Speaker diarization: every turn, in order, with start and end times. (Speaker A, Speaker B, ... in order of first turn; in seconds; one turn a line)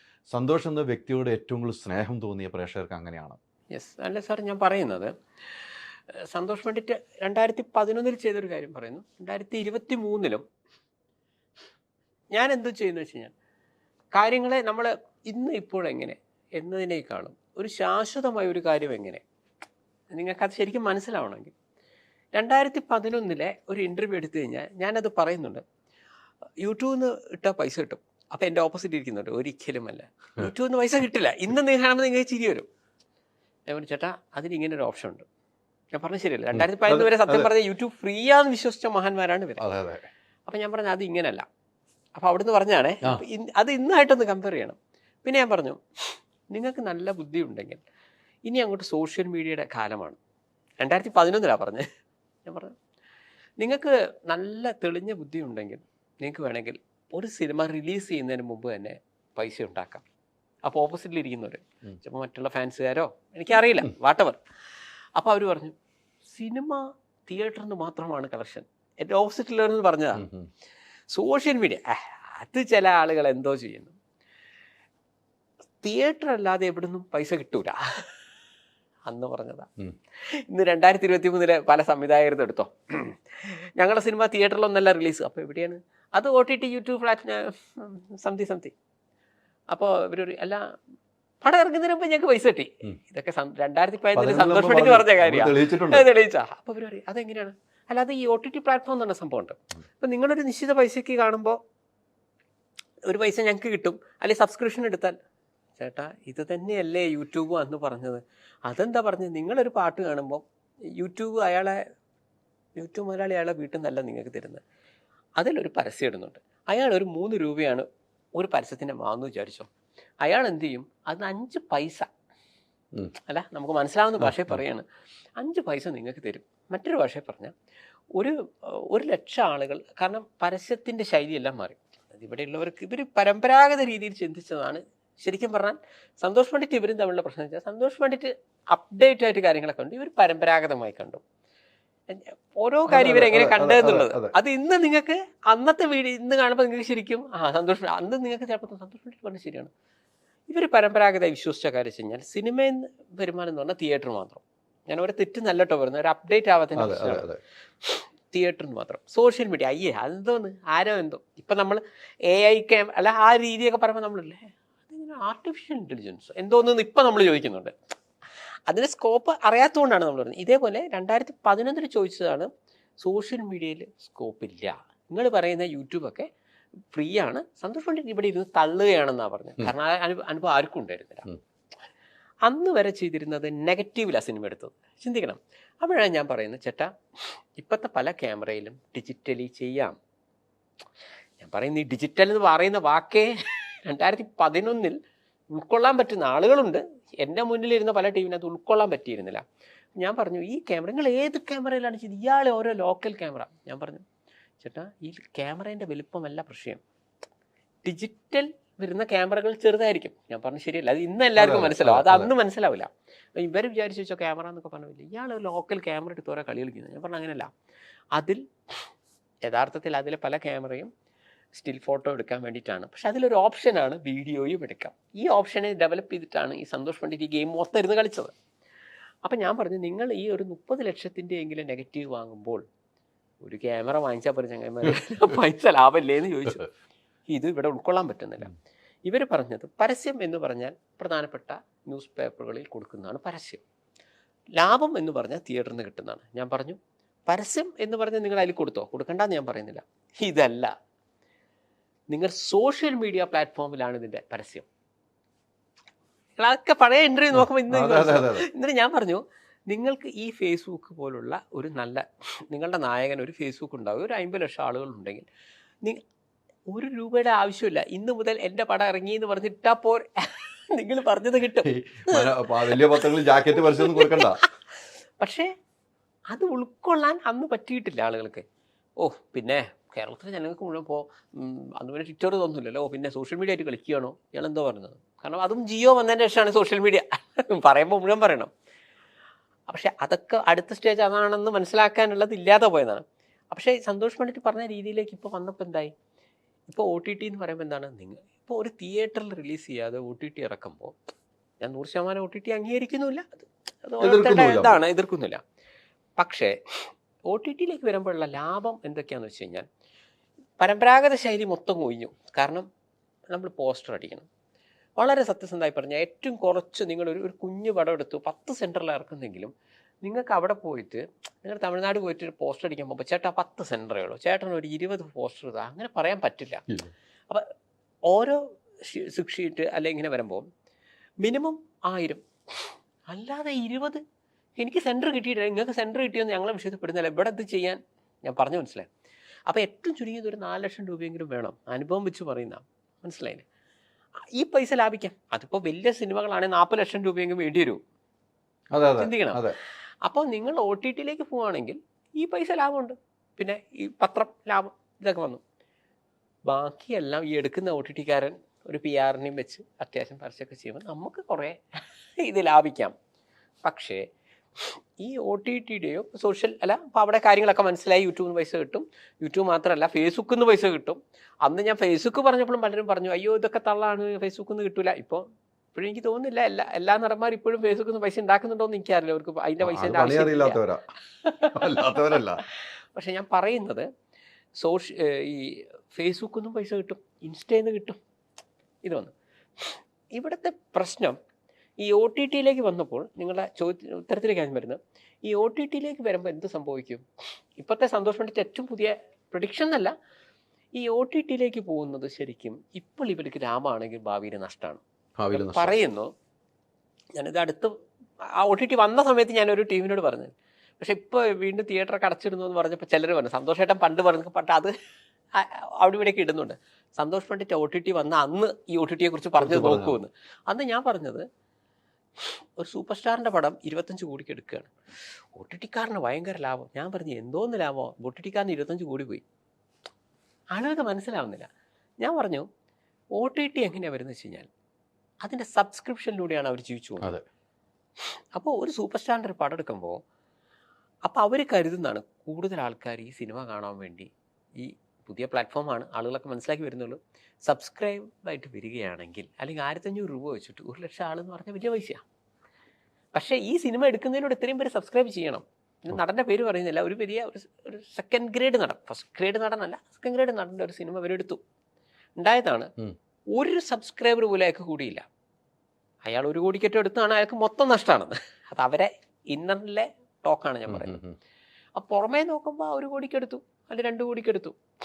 Speaker A: 0.3-3.4
Speaker B: 3.7-10.4
Speaker B: 12.3-13.3
Speaker B: 14.1-19.2
Speaker B: 20.1-21.5
Speaker B: 22.3-25.6
Speaker B: 26.6-32.7
Speaker B: 33.7-35.2
Speaker B: 35.9-39.6
Speaker A: 36.5-37.5
Speaker A: 39.6-40.1
Speaker B: 40.5-41.5
Speaker B: 42.2-47.8
Speaker B: 48.5-50.2
Speaker B: 50.8-51.9
Speaker B: 52.5-52.7
Speaker B: 53.6-60.0
Speaker B: 60.6-65.7
Speaker B: 66.3-70.3
Speaker A: 70.2-70.5
Speaker B: 71.1-74.0
Speaker B: 75.8-78.2
Speaker B: 79.1-88.7
Speaker B: 89.7-90.6
Speaker B: 91.4-101.6
Speaker A: 94.1-96.1
Speaker B: 103.1-105.2
Speaker B: 105.8-110.4
Speaker B: 111.0-111.8
Speaker B: 112.8-114.6
Speaker B: 115.4-117.9
Speaker B: 118.4-119.7
Speaker B: 120.2-122.1
Speaker B: 123.3-124.8
Speaker B: 125.4-127.5
Speaker B: 128.2-141.2
Speaker B: 142.1-149.7
Speaker A: 142.9-144.3
Speaker B: 150.5-157.2
Speaker A: 156.8-157.4
Speaker B: 157.8-167.8
Speaker B: 168.7-172.5
Speaker B: 173.0-176.3
Speaker B: 176.9-181.3
Speaker B: 182.4-190.0
Speaker B: 191.4-195.0
Speaker B: 195.5-199.4
Speaker B: 200.0-204.0
Speaker B: 204.6-206.8
Speaker B: 207.8-217.5
Speaker A: 211.4-212.3
Speaker B: 218.2-218.9
Speaker B: 219.4-220.9
Speaker B: 221.5-228.3
Speaker B: 229.2-232.6
Speaker B: 233.4-236.7
Speaker B: 237.3-238.5
Speaker B: 239.1-243.6
Speaker B: 244.6-250.7
Speaker B: 252.1-254.7
Speaker B: 256.4-265.3
Speaker A: 257.4-258.4
Speaker B: 266.7-274.5
Speaker A: 271.6-274.4
Speaker B: 275.2-275.5
Speaker B: 276.3-278.4
Speaker B: 279.0-288.5
Speaker B: 289.7-295.9
Speaker B: 296.7-300.9
Speaker B: 301.6-305.4
Speaker A: 304.0-304.8
Speaker B: 306.2-309.7
Speaker B: 310.6-312.7
Speaker B: 313.3-314.3
Speaker B: 315.0-319.5
Speaker B: 320.0-326.7
Speaker B: 328.1-330.5
Speaker B: 331.2-334.0
Speaker B: 334.6-338.9
Speaker B: 339.5-343.4
Speaker B: 344.4-347.8
Speaker A: 348.7-349.6
Speaker B: 349.0-349.5
Speaker B: 350.0-355.4
Speaker B: 356.5-362.9
Speaker B: 363.6-364.0
Speaker B: 364.6-375.2
Speaker B: 375.8-380.6
Speaker A: 379.6-380.8
Speaker B: 381.2-381.8
Speaker A: 381.6-382.4
Speaker B: 382.4-383.9
Speaker B: 384.6-388.0
Speaker B: 388.8-391.2
Speaker B: 391.8-397.0
Speaker B: 397.6-399.9
Speaker B: 400.8-404.8
Speaker A: 405.2-405.8
Speaker B: 405.3-406.1
Speaker B: 407.2-407.7
Speaker B: 408.4-414.7
Speaker B: 415.4-421.3
Speaker A: 419.4-420.0
Speaker B: 422.2-424.7
Speaker B: 425.4-429.2
Speaker B: 430.5-432.5
Speaker B: 433.1-434.5
Speaker B: 435.2-437.1
Speaker B: 438.4-440.0
Speaker B: 441.1-452.0
Speaker B: 453.1-461.4
Speaker B: 462.2-462.7
Speaker B: 463.3-465.0
Speaker B: 466.1-471.0
Speaker A: 470.7-471.1
Speaker B: 471.8-474.6